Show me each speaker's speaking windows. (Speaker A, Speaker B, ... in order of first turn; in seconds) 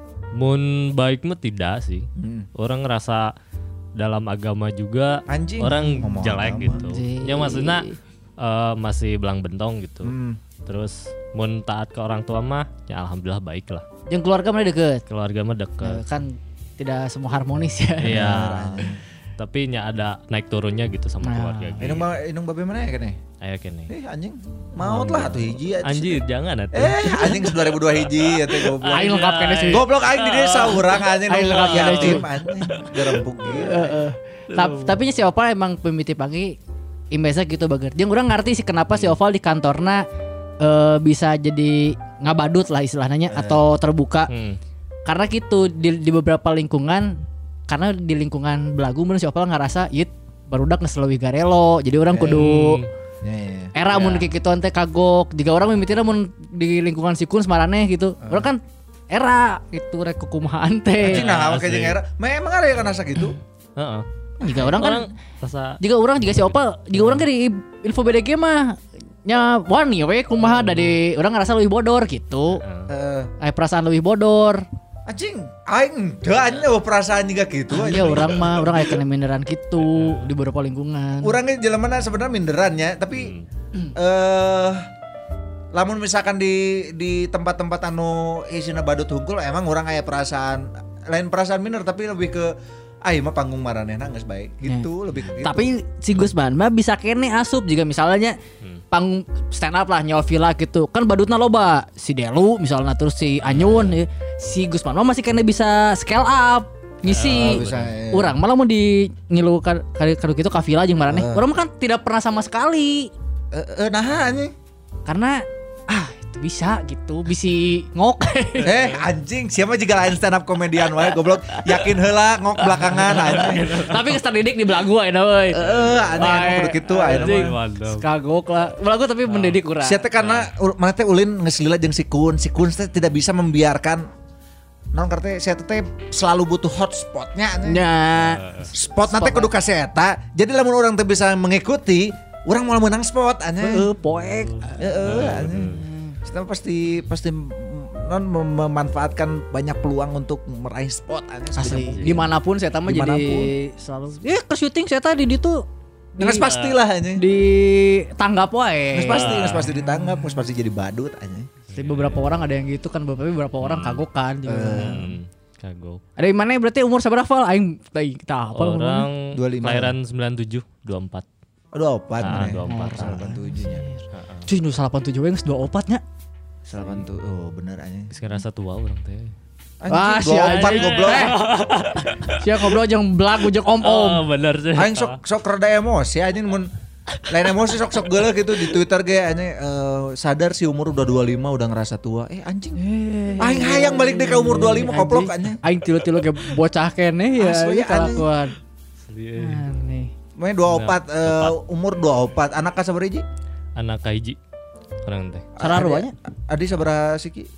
Speaker A: 0.3-3.3, 4.0-7.8, 8.4-10.1, 10.7-13.8, 15.1-16.0, 18.0-22.1, 23.4-23.9, 24.8-33.2, 34.5-35.0, 44.3-44.6, 52.3-52.9, 53.9-54.3, 61.0-62.0, 63.8-64.0, 64.6-66.5, 72.6-72.9, 79.9-80.3, 83.1-83.5, 103.6-103.8, 107.1-107.9, 118.6-119.0, 123.1-124.1, 125.6-126.1, 126.9-128.0, 129.2-129.6, 130.2-130.5, 138.2-138.7, 144.4-145.8, 156.5-156.8, 159.1-159.7, 161.7-162.3, 163.6-164.0, 164.7-166.0, 168.5-171.2, 172.2-173.2, 174.1-174.4, 178.1-179.3, 180.4-182.7, 183.8-185.2, 199.1-199.6, 200.7-201.5, 203.8-204.4, 205.0-205.5
Speaker B: 2.1-2.5, 5.3-6.8, 10.0-10.4, 18.0-19.0, 21.8-23.2, 23.9-29.1, 29.7-34.0, 43.3-43.6, 52.1-52.5, 53.2-53.7, 58.2-58.5, 61.0-63.4, 64.4-64.8, 72.9-73.3, 75.1-78.9, 81.2-83.3, 83.9-84.8, 85.7-95.7, 107.3-108.3, 111.1-111.4, 113.5-114.5, 118.6-123.7, 125.5-127.5, 129.8-134.1, 134.9-137.8, 138.7-143.9, 144.8-152.3, 152.8-153.5, 156.2-157.2, 158.9-161.5, 164.4-165.1, 169.3-169.9, 171.7-173.8, 176.7-178.1, 179.8-181.3, 184.7-186.7, 187.3-192.8, 193.4-195.6, 197.4-198.3, 200.4-203.2, 205.6-207.5
Speaker C: 6.7-8.0, 14.1-15.0, 15.8-18.4, 21.2-22.0, 27.0-27.5, 28.9-29.8, 31.3-32.2, 33.6-36.6, 37.1-40.0, 40.6-44.3, 45.0-52.8, 53.7-61.2, 64.4-65.1, 65.8-72.6, 73.4-74.6, 77.7-81.3, 95.4-98.4, 98.9-113.1, 115.0-118.7, 121.5-121.8, 122.9-130.0, 137.6-139.5, 143.6-146.2, 151.6-155.6, 156.2-156.5, 157.2-159.4, 161.7-165.0, 166.2-169.1, 172.7-176.0, 179.9-181.4, 182.3-184.2, 192.8-198.5, 199.3-200.1, 205.6-206.1